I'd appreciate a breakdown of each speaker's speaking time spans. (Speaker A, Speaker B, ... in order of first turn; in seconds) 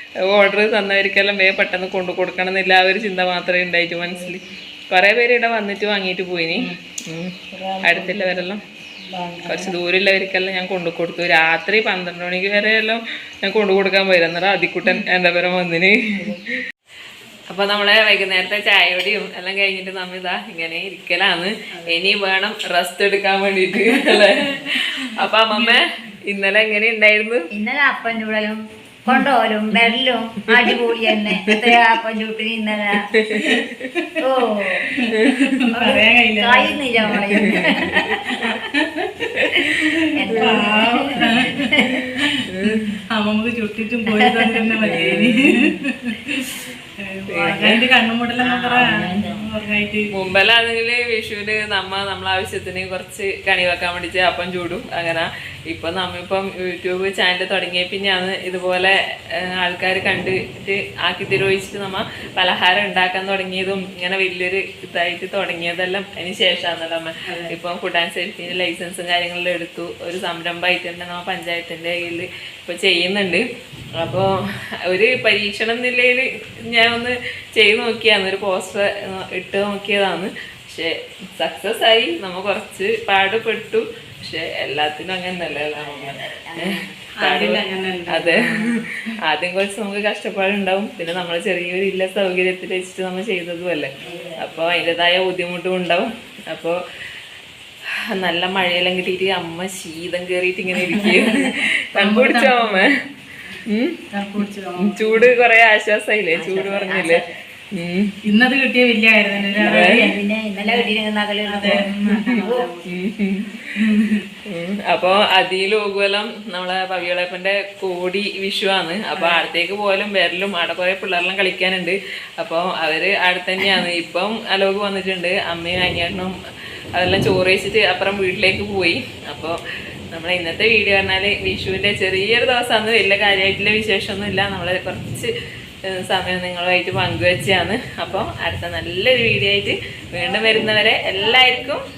Speaker A: 0.3-8.6, 9.5-16.2, 17.5-27.5, 33.1-33.9, 35.2-35.5, 37.1-38.1, 39.4-39.7, 40.4-43.0, 44.8-45.8, 47.3-47.8, 50.1-73.5, 74.0-74.3, 74.9-88.7, 89.3-96.8, 98.1-102.9, 103.7-104.0, 104.8-107.2, 107.7-108.1, 109.6-110.1, 111.7-113.6, 114.5-126.3, 127.0-129.6, 130.1-135.3, 135.9-141.8
Speaker B: 4.1-4.4, 7.5-8.4, 9.1-9.8, 16.2-16.6, 21.7-22.1, 23.9-24.3, 33.4-34.2, 35.0-50.1, 67.3-67.5, 87.2-89.2, 100.8-102.9, 104.1-105.3, 108.3-110.0, 110.6-110.9, 111.5-112.9, 113.8-114.2, 119.2-119.4
Speaker C: 27.5-33.0, 34.2-34.9, 35.7-38.0, 40.2-42.0, 44.1-44.7, 48.4-49.5, 85.7-87.0, 94.0-94.9, 106.3-107.4, 109.5-112.7